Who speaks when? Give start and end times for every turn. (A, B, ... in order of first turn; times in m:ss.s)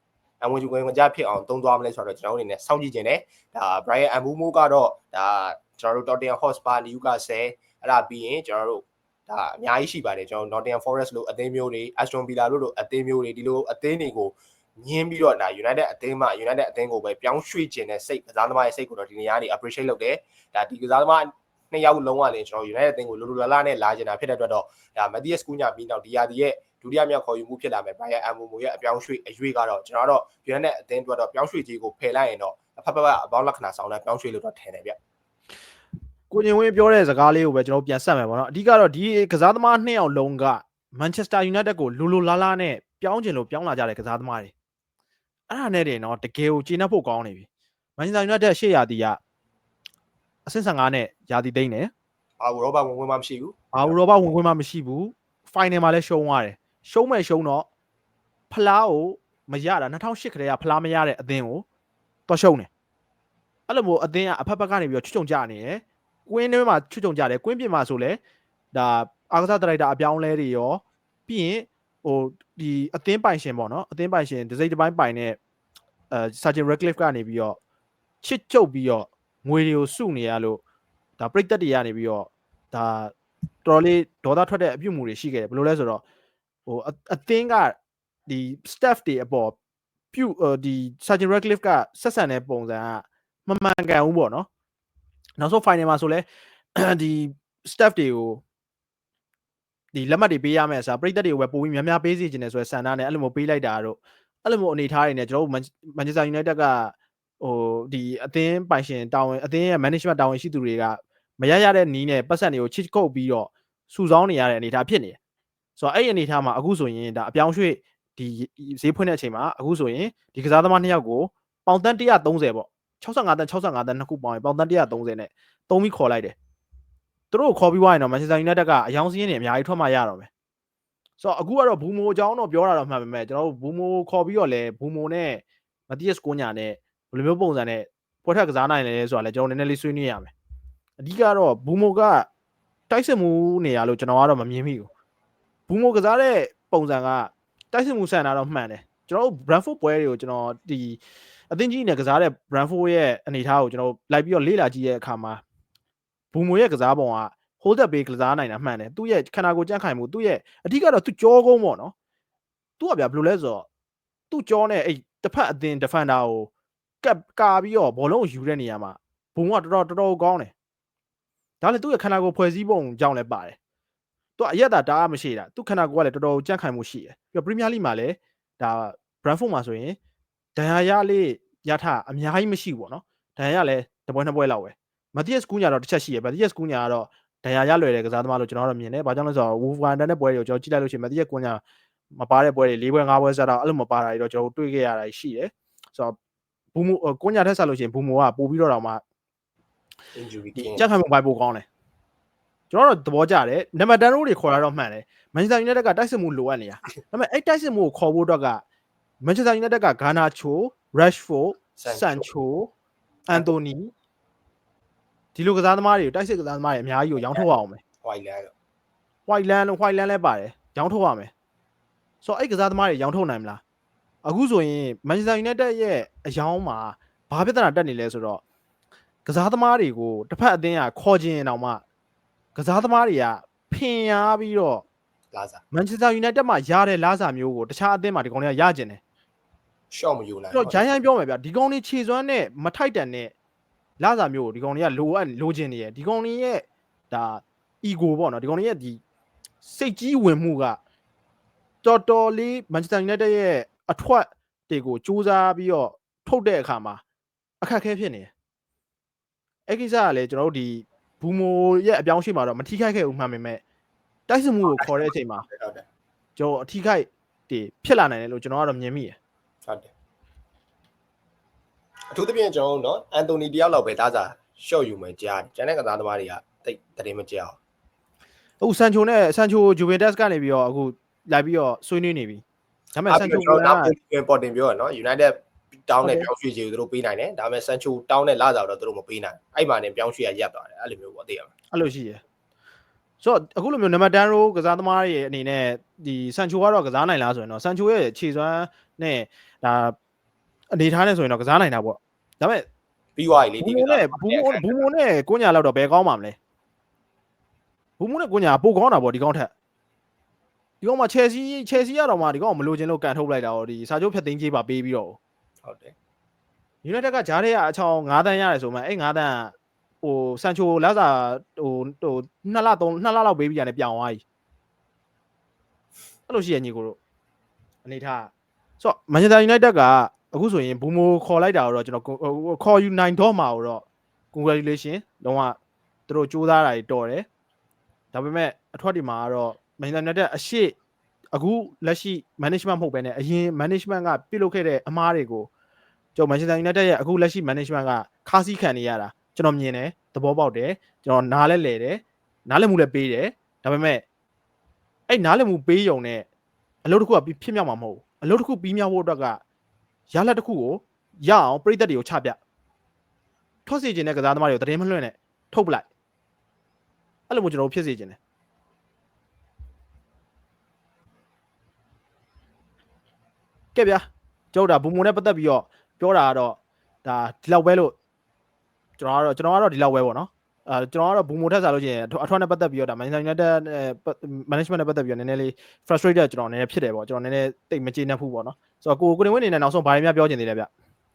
0:00.4-0:35.0 A
0:36.3-0:44.5 B
0:45.5-0:49.2 B
0:50.5-0:51.9 B
0:52.4-0:54.0 A
0:53.7-0:57.7 B
0:58.5-1:01.6 B
1:02.3-1:02.7 B
1:03.7-1:08.2 B
1:08.7-1:15.4 B
1:16.1-1:17.6 B
1:18.2-1:20.6 B
1:21.2-1:23.1 B
1:23.6-1:26.0 B
1:26.7-1:29.6 B
1:30.1-1:34.5 B
1:35.4-1:38.4 B
1:39.9-1:55.2 B
1:55.8-2:06.4 B
2:07.3-2:10.3 B
2:11.2-2:20.3 B
2:21.0-2:22.3 B
2:22.9-2:24.9 B
2:25.7-2:35.4 B
2:36.3-2:41.9 B
2:42.8-2:43.7 B
2:44.3-2:46.5 B
2:47.0-2:50.5 B
2:51.6-2:53.6 B
2:54.4-3:00.0 B
3:00.6-3:11.6 B
3:12.1-3:16.2 B
3:16.7-3:19.0 B
3:20.2-3:20.9 A
3:20.6-3:21.7 B
3:22.7-3:28.6 B
3:29.2-3:32.7 B
3:31.8-3:32.3 A
3:33.3-3:33.9 B
3:35.4-3:37.8 B
3:38.0-3:38.5 A
3:39.3-3:41.3 B
3:42.2-3:43.6 B
3:44.2-3:48.4 B
3:49.2-3:51.8 B
3:52.6-3:54.8 B
3:55.3-3:55.6 A
3:55.7-3:59.0 B
3:59.9-4:00.8 A
4:00.5-4:03.3 B
4:04.0-4:09.0 B
4:09.6-4:10.8 B
4:11.8-4:17.0 B
4:17.6-4:18.3 B
4:19.7-4:23.6 B
4:24.3-4:25.5 B
4:24.7-4:25.8 A
4:26.4-4:29.2 B
4:32.1-4:37.6 A
4:38.6-4:42.4 B
4:43.0-4:43.9 B
4:43.1-4:51.5 A
4:46.0-4:46.3 B
4:51.7-4:52.2 B
4:53.2-5:00.0 B
5:00.7-5:02.7 B
5:03.2-5:04.8 A
5:03.6-5:06.4 B
5:08.0-5:09.5 B
5:10.8-5:15.2 B
5:15.6-5:16.0 A
5:16.8-5:24.2 B
5:26.3-5:27.0 B
5:27.8-5:37.3 B
5:38.1-5:40.8 B
5:41.3-5:45.5 B
5:46.2-5:54.0 B
5:55.1-5:56.3 B
5:56.8-5:59.4 B
6:00.1-6:02.4 B
6:03.7-6:05.9 B
6:07.3-6:08.2 B
6:13.8-6:18.0 B
6:19.0-6:30.7 B